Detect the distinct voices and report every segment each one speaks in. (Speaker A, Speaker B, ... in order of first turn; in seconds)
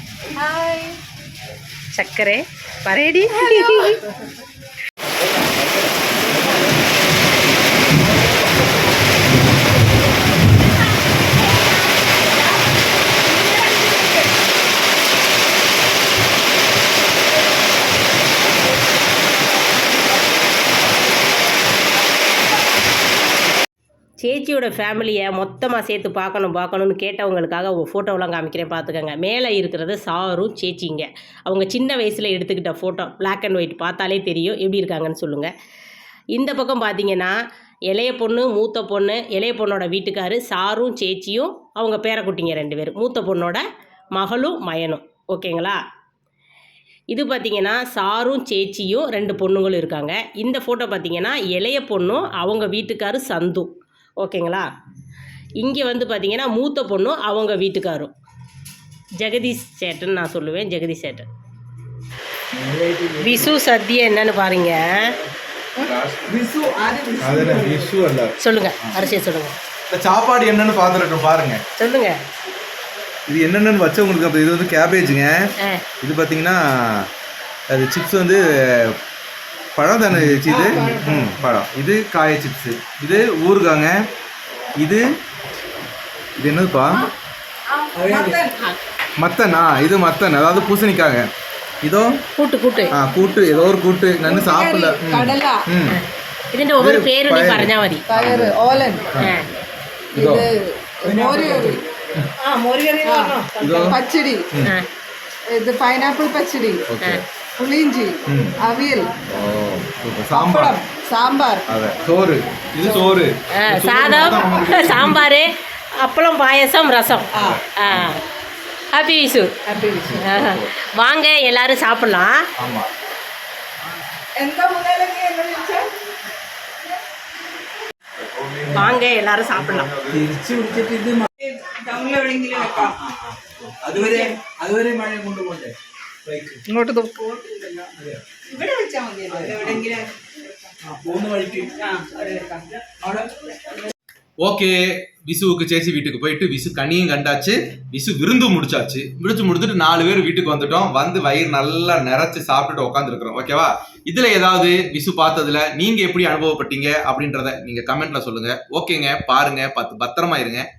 Speaker A: 0.4-0.9, 66.4-67.8, 80.5-81.2, 87.9-88.5, 94.2-95.6, 98.1-99.1, 100.2-101.8, 102.7-104.5, 105.5-106.8, 107.6-109.1, 110.3-111.7, 119.7-120.2, 124.3-125.9, 131.4-132.9, 133.9-134.3, 136.7-137.9, 138.5-140.1, 141.8-143.2
Speaker B: 1.9-4.0, 24.2-35.5, 36.3-43.6, 44.1-45.8, 47.1-54.7, 55.6-58.1, 59.2-61.3, 63.2-65.1, 68.4-69.6, 71.8-72.2, 92.4-92.9, 95.9-98.0, 99.2-99.5, 113.5-118.2, 118.9-119.5, 120.2-122.4, 128.7-129.9
Speaker C: 62.7-63.0, 65.8-66.5, 67.2-68.3, 69.9-71.6, 73.3-75.5, 76.0-77.1, 77.7-79.0, 79.8-83.9, 86.4-87.0, 89.2-91.2, 91.8-92.2, 92.9-96.0, 96.8-99.3, 100.2-100.5, 103.6-104.0, 106.9-107.2, 108.3-108.5, 109.3-110.8, 111.7-115.2, 117.3-118.2, 120.1-120.7, 122.6-122.9, 128.3-128.9, 129.5-130.6, 144.4-160.6
Speaker D: 88.0-88.4, 101.1-101.8, 130.1-131.3, 132.5-135.7, 136.2-136.6, 137.9-138.2, 139.3-140.0, 140.9-141.8